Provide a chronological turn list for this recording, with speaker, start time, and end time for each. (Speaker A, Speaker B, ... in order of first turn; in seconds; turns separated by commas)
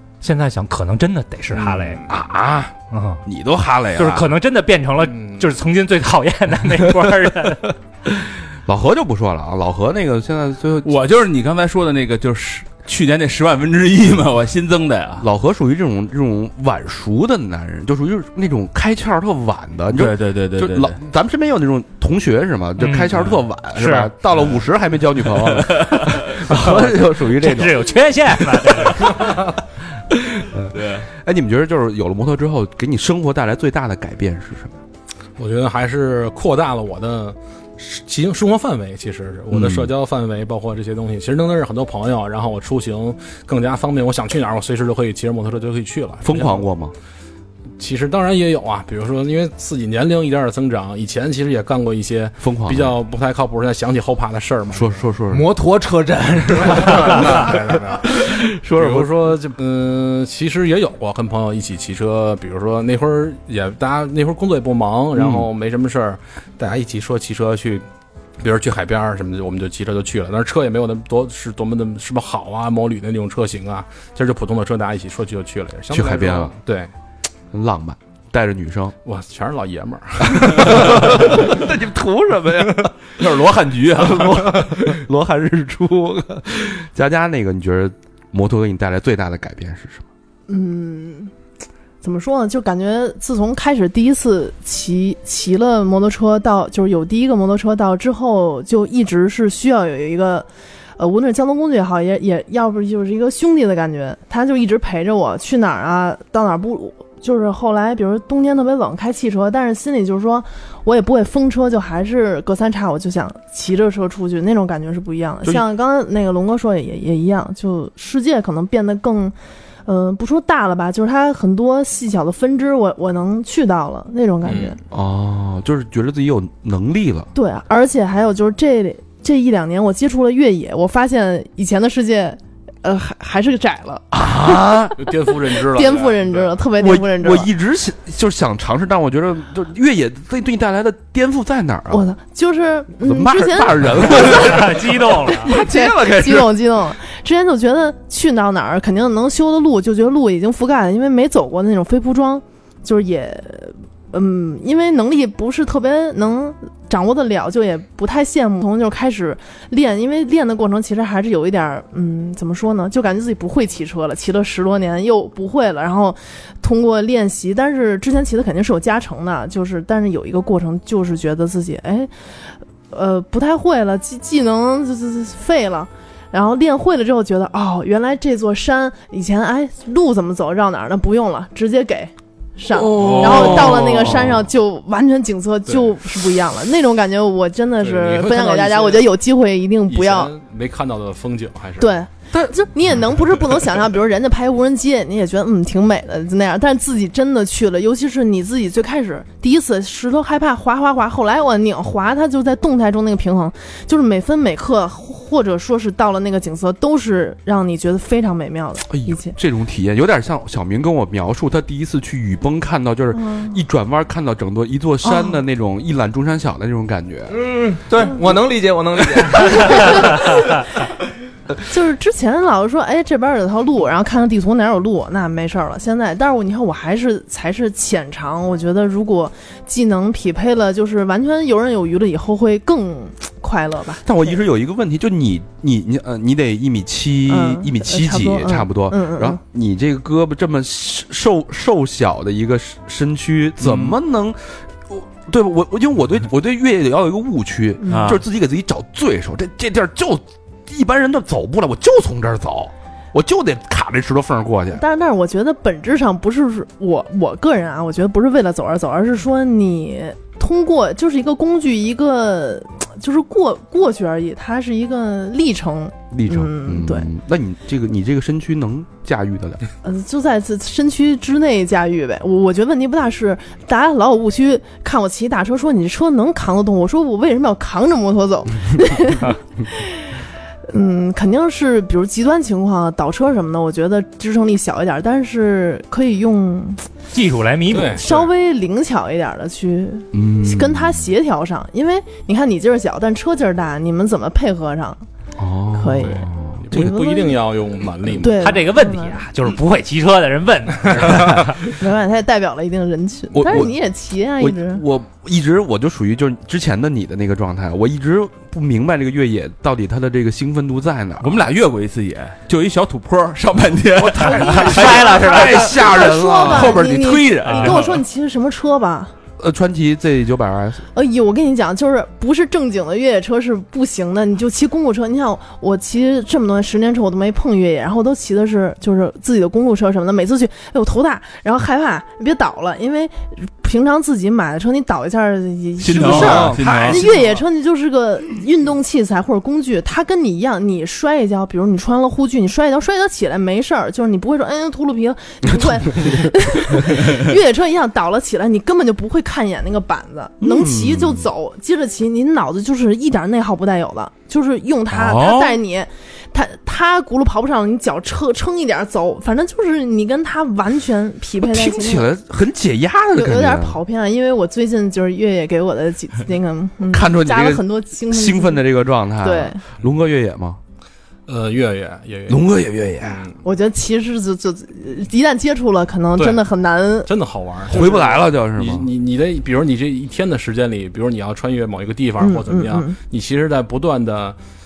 Speaker A: 0.2-2.0, Speaker B: 1.5-2.1, Speaker C: 2.1-2.7, Speaker A: 2.9-3.2, Speaker C: 3.2-4.3, Speaker A: 4.0-7.7, Speaker B: 5.0-5.4, Speaker C: 8.1-10.9, Speaker D: 10.8-15.3, Speaker C: 15.2-27.9, Speaker D: 19.9-21.0, Speaker A: 22.8-24.1, Speaker D: 25.5-26.1, Speaker A: 26.5-29.4, Speaker C: 28.6-29.3, Speaker C: 30.1-34.8, Speaker D: 30.7-31.1, Speaker B: 35.4-46.7, Speaker C: 39.5-39.9, Speaker C: 46.2-46.9, Speaker B: 47.8-55.0, Speaker C: 52.4-53.0, Speaker C: 54.7-55.5, Speaker E: 55.3-57.6, Speaker B: 56.8-58.1, Speaker C: 58.1-59.2, Speaker B: 58.7-67.8, Speaker C: 65.2-65.5, Speaker B: 68.4-76.9, Speaker C: 75.9-76.5, Speaker C: 77.5-78.9, Speaker B: 79.0-81.3, Speaker C: 80.6-82.9, Speaker D: 83.2-84.5, Speaker C: 83.9-90.0, Speaker F: 90.5-91.3, Speaker F: 92.0-100.5, Speaker F: 101.0-119.3, Speaker F: 119.9-124.8, Speaker B: 124.4-124.8, Speaker C: 124.9-127.3, Speaker F: 127.3-134.9, Speaker C: 134.1-135.0, Speaker B: 135.0-136.6, Speaker F: 135.7-137.5, Speaker C: 136.8-142.0, Speaker F: 141.9-144.6, Speaker C: 143.0-146.5, Speaker A: 144.0-145.5, Speaker F: 145.4-172.1, Speaker F: 172.9-190.3, Speaker B: 183.0-184.1, Speaker D: 183.0-183.9, Speaker C: 183.0-183.6, Speaker B: 185.7-185.9, Speaker B: 187.8-189.1, Speaker B: 189.9-192.0, Speaker F: 191.8-209.4, Speaker C: 208.9-217.4, Speaker F: 213.1-213.6, Speaker F: 215.1-215.3, Speaker E: 217.3-220.4, Speaker F: 221.6-234.4, Speaker C: 234.0-254.8, Speaker F: 237.3-239.4, Speaker D: 247.9-248.2, Speaker F: 254.7-267.1, Speaker C: 266.1-269.6, Speaker F: 269.8-280.1, Speaker F: 280.7-286.9, Speaker A: 287.1-288.1, Speaker B: 287.7-288.3, Speaker F: 287.9-295.1, Speaker C: 290.1-291.0, Speaker C: 295.4-297.1, Speaker F: 295.7-297.4, Speaker B: 296.0-298.6, Speaker F: 298.2-299.2, Speaker A: 298.4-301.6, Speaker F: 301.6-304.8, Speaker C: 303.3-303.7, Speaker C: 304.4-311.4, Speaker D: 311.2-318.0, Speaker C: 314.0-316.8, Speaker F: 314.2-319.1, Speaker A: 314.4-315.7, Speaker A: 317.4-317.8, Speaker C: 319.4-320.9, Speaker F: 320.9-362.1, Speaker D: 335.8-337.1, Speaker C: 335.9-337.4, Speaker C: 350.4-351.2, Speaker D: 354.9-355.6, Speaker C: 361.4-363.8, Speaker F: 363.1-369.6, Speaker C: 366.9-370.6, Speaker B: 371.3-372.5, Speaker C: 372.3-373.2, Speaker B: 373.0-373.4, Speaker F: 373.4-377.1, Speaker B: 376.1-376.4, Speaker B: 377.1-384.4, Speaker C: 377.7-378.9, Speaker F: 382.2-383.0